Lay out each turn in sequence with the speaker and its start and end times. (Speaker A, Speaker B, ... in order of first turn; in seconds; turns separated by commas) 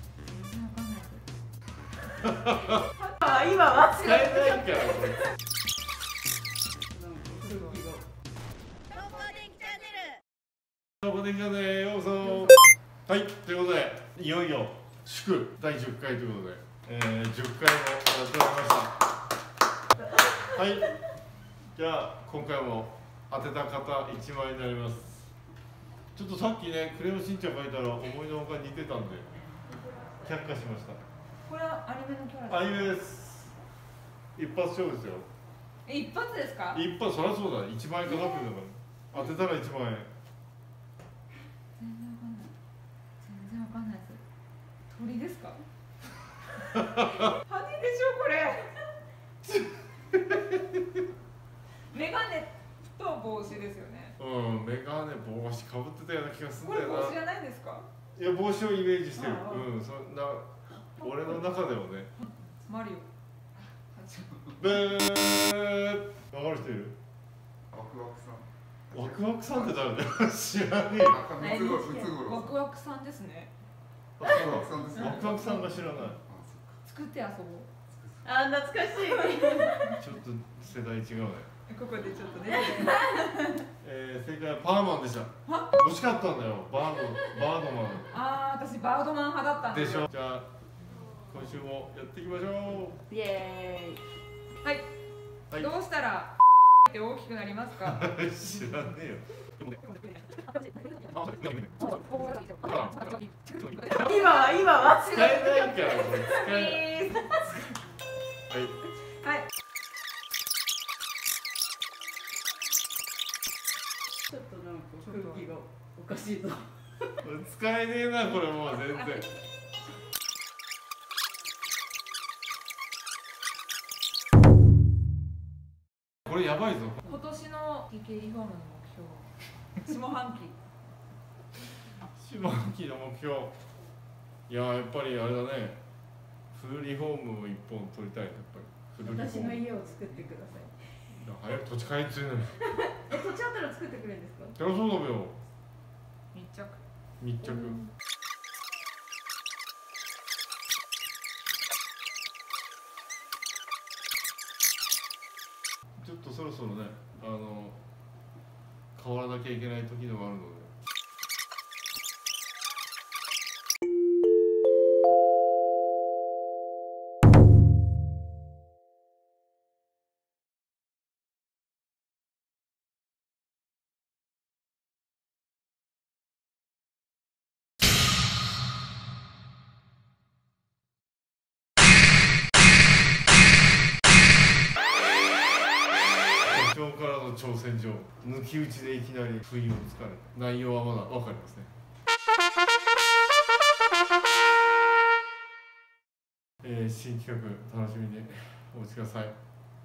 Speaker A: 0.2-1.2, Speaker B: 2.2-2.8, Speaker C: 3.3-3.6, Speaker B: 3.6-5.3, Speaker C: 6.9-8.0, Speaker B: 11.0-18.9, Speaker B: 20.4-20.9, Speaker B: 21.8-25.3, Speaker B: 26.1-29.3, Speaker B: 30.2-31.0, Speaker A: 31.4-33.0, Speaker B: 32.5-33.5, Speaker B: 34.4-35.3, Speaker A: 35.9-36.8, Speaker B: 36.7-40.1, Speaker A: 41.8-42.5, Speaker A: 43.2-44.2, Speaker A: 44.9-45.6, Speaker A: 47.0-48.8, Speaker B: 50.3-50.8, Speaker A: 51.9-54.1, Speaker B: 54.2-57.2, Speaker A: 56.6-57.9, Speaker B: 58.1-62.1, Speaker A: 59.2-59.7, Speaker A: 62.2-63.1, Speaker A: 63.7-64.3, Speaker B: 64.6-67.0, Speaker D: 67.7-69.2, Speaker B: 68.9-71.2, Speaker D: 71.0-72.5, Speaker C: 71.4-72.2, Speaker A: 72.2-73.5, Speaker B: 74.2-76.2, Speaker D: 74.2-75.5, Speaker D: 76.2-76.8, Speaker A: 76.8-77.7, Speaker D: 77.9-78.3, Speaker C: 78.2-80.0, Speaker B: 79.9-81.5, Speaker A: 81.7-83.7, Speaker B: 83.8-88.1, Speaker A: 85.5-85.7, Speaker A: 88.1-90.1, Speaker B: 89.7-90.5, Speaker B: 91.3-93.0, Speaker C: 93.1-94.0, Speaker A: 94.6-94.9, Speaker A: 95.5-98.0, Speaker B: 97.8-99.7, Speaker A: 99.8-101.0, Speaker B: 101.1-101.9, Speaker A: 101.8-107.5, Speaker B: 102.6-103.1, Speaker C: 103.9-105.3, Speaker B: 104.8-106.9, Speaker B: 108.5-108.8, Speaker A: 109.2-109.5, Speaker C: 114.3-116.7, Speaker A: 115.0-115.5, Speaker B: 117.2-119.3, Speaker B: 126.2-127.0, Speaker A: 127.0-130.6, Speaker B: 132.0-133.5, Speaker B: 134.5-135.8, Speaker B: 136.5-139.6, Speaker C: 139.0-140.8, Speaker B: 141.1-142.7, Speaker C: 142.8-144.6, Speaker B: 144.6-145.4, Speaker A: 146.3-146.8, Speaker B: 147.2-147.8, Speaker B: 156.0-157.8, Speaker B: 158.9-160.7, Speaker B: 186.4-191.7, Speaker B: 196.6-199.3